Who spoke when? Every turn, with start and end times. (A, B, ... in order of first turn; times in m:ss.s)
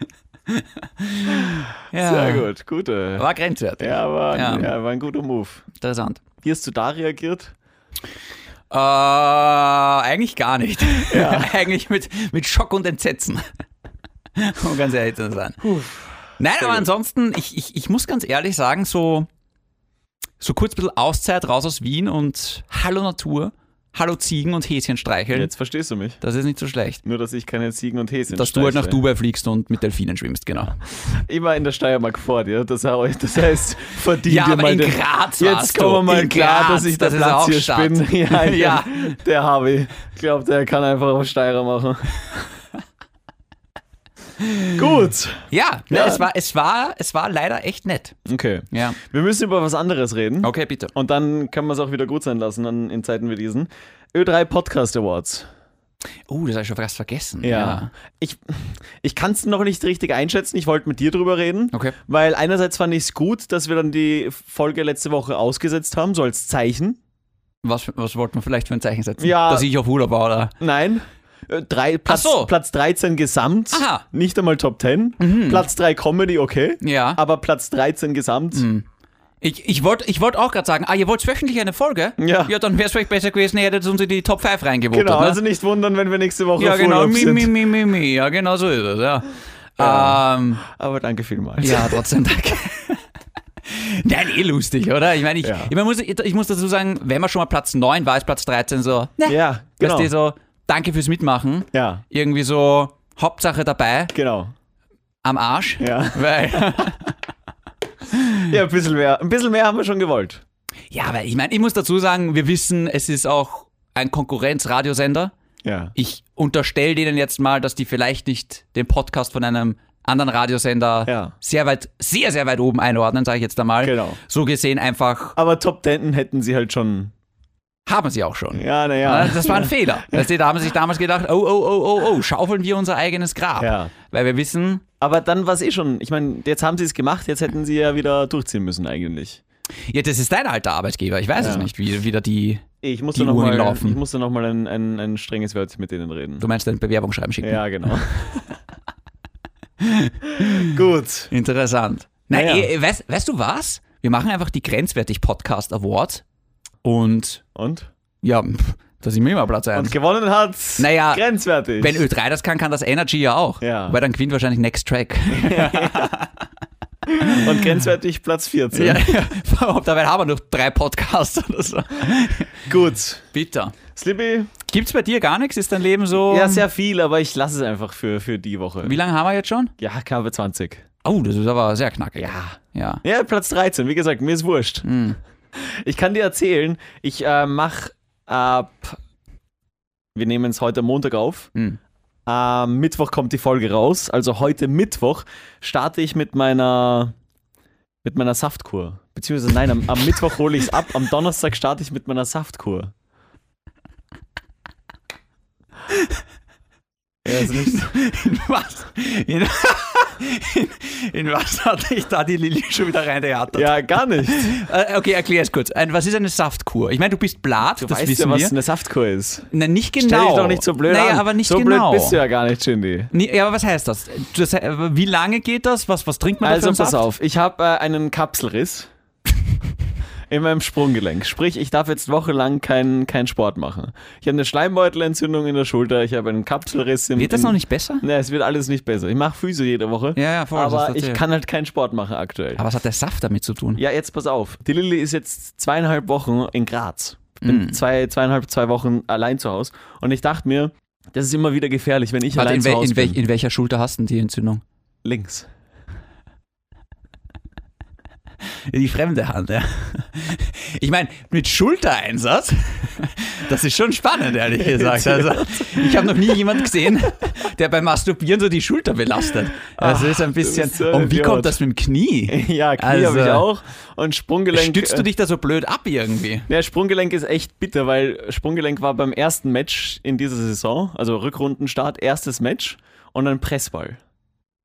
0:00.5-0:02.5 A
0:01.5-0:03.2 B
0:03.2-0:04.7 A
0:03.8-0:05.6 B
0:05.8-0:06.2 A
0:06.4-0:07.5 B
0:08.7-0:13.4 A
0:11.1-0:11.5 B
0:14.4-0:15.6 A
0:15.6-0:16.9 B
0:16.4-0:19.3 A
0:20.4-0:25.5 A
0:25.3-0:26.2 B
0:26.2-0:27.0 A
0:27.0-0:29.0 B
0:28.3-0:30.8 A
0:31.1-0:42.4 B
0:34.3-0:39.2 A
0:44.4-0:44.8 A
0:44.8-0:46.2 B
0:45.5-0:48.2 A
0:48.3-0:55.5 B
0:48.7-0:49.0 A
0:50.4-0:50.9 A
0:56.3-0:57.9 A
0:57.4-1:07.0 B
1:07.6-1:10.5 A
1:09.2-1:09.7 B
1:10.6-1:18.6 B
1:12.1-1:12.5 A
1:13.7-1:14.0 A
1:15.2-1:15.7 A
1:16.8-1:17.2 A
1:18.5-1:18.8 A
1:19.4-1:25.4 A
1:22.2-1:22.5 B
1:24.9-1:27.5 B
1:26.6-1:30.6 A
1:29.8-1:32.0 B
1:31.6-1:33.0 A
1:33.7-1:44.1 A
1:35.4-1:35.7 B
1:39.3-1:40.1 B
1:41.7-1:42.0 B
1:44.1-1:44.5 B
1:45.2-1:47.1 A
1:45.8-1:46.8 B
1:48.5-1:50.4 B
1:50.9-1:55.3 A
1:55.6-1:55.9 B
1:55.9-2:05.4 A
2:01.1-2:01.4 B
2:03.8-2:04.2 B
2:05.4-2:07.1 B
2:07.9-2:14.8 A
2:08.6-2:10.3 B
2:13.6-2:13.9 B
2:15.0-2:19.4 B
2:19.9-2:24.0 A
2:21.4-2:21.7 B
2:22.8-2:26.5 B
2:26.4-2:27.6 A
2:27.4-2:28.6 B
2:29.8-2:30.7 A
2:30.5-2:31.3 B
2:31.3-2:36.2 A
2:32.3-2:32.7 B
2:36.8-2:37.4 A
2:37.6-2:37.9 B
2:38.2-2:40.0 A
2:39.8-2:42.0 B
2:40.8-2:41.2 A
2:41.8-2:46.4 A
2:43.6-2:44.0 B
2:45.3-2:46.1 B
2:47.1-2:49.0 B
2:47.2-2:47.8 A
2:48.7-2:52.7 A
2:52.7-2:53.3 B
2:53.3-2:53.8 A
2:53.9-2:54.5 B
2:54.6-2:56.6 A
2:56.2-2:59.0 B
2:58.8-2:59.7 A
2:59.8-3:00.8 B
3:01.0-3:03.0 A
3:02.2-3:04.9 B
3:04.8-3:05.2 A
3:05.5-3:09.0 B
3:10.1-3:11.5 B
3:12.3-3:17.1 B
3:18.0-3:22.9 B
3:27.2-3:27.8 B
3:27.3-3:38.5 A
3:33.5-3:34.6 B
3:37.8-3:43.1 B
3:39.5-3:42.2 A
3:43.1-3:47.1 A
3:46.4-3:48.9 B
3:50.3-4:02.6 B
3:57.2-3:58.0 A
4:00.1-4:01.2 A
4:02.6-4:03.8 A
4:03.8-4:13.2 B
4:07.4-4:07.8 A
4:12.3-4:14.6 A
4:15.0-4:15.5 B
4:18.7-4:33.4 A
4:24.5-4:26.6 B
4:29.8-4:31.6 B
4:32.3-4:35.1 B
4:34.5-4:36.5 A
4:36.5-4:44.0 B